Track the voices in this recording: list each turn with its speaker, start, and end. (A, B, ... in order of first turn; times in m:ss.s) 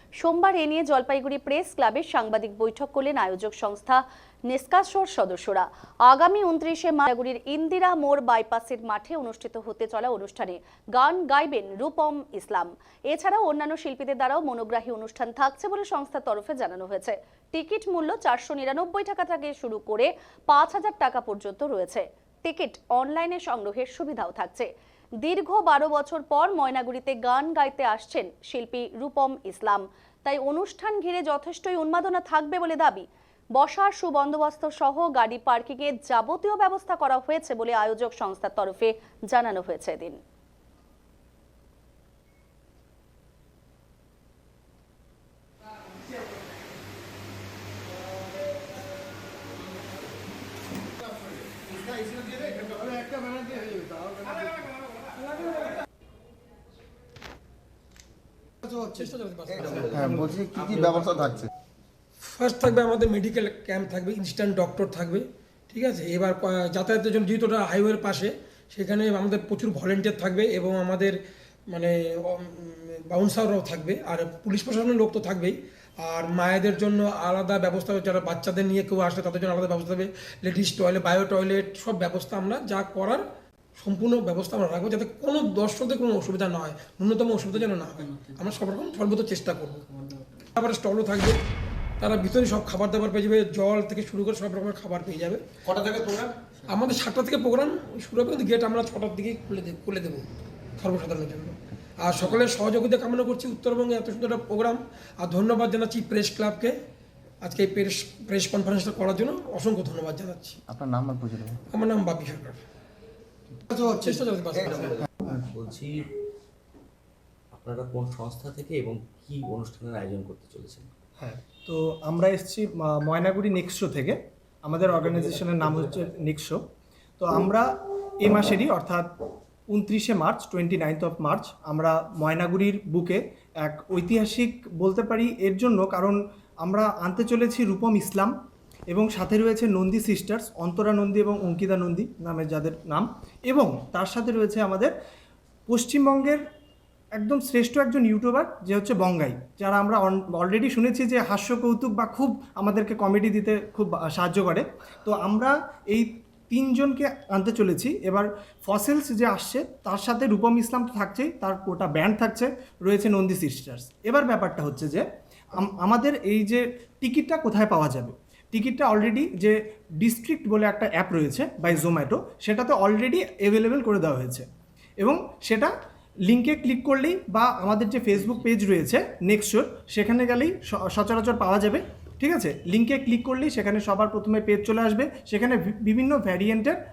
0:00.2-0:24.7 A
0:25.2-0:40.2 A
0:52.3-0:54.5 B
0:58.6-1:00.4 C
0:59.7-1:01.3 D
1:00.1-1:01.4 B
1:02.2-1:11.2 C
1:11.7-1:23.2 C
1:23.8-1:31.4 C
1:32.0-1:40.2 C
1:40.8-1:46.8 C
1:47.4-1:50.6 C
1:50.7-1:51.6 B
1:51.7-1:52.6 C
1:53.7-1:55.0 C
1:54.7-1:56.0 D
1:57.5-2:00.9 D
2:01.2-2:06.6 E
2:04.8-2:06.1 D
2:07.2-2:07.7 E
2:08.2-2:09.1 E
2:09.7-2:18.3 E
2:18.9-2:24.9 E
2:25.7-2:26.4 E
2:27.2-2:54.4 E
2:55.0-2:55.7 E
2:56.3-3:06.8 E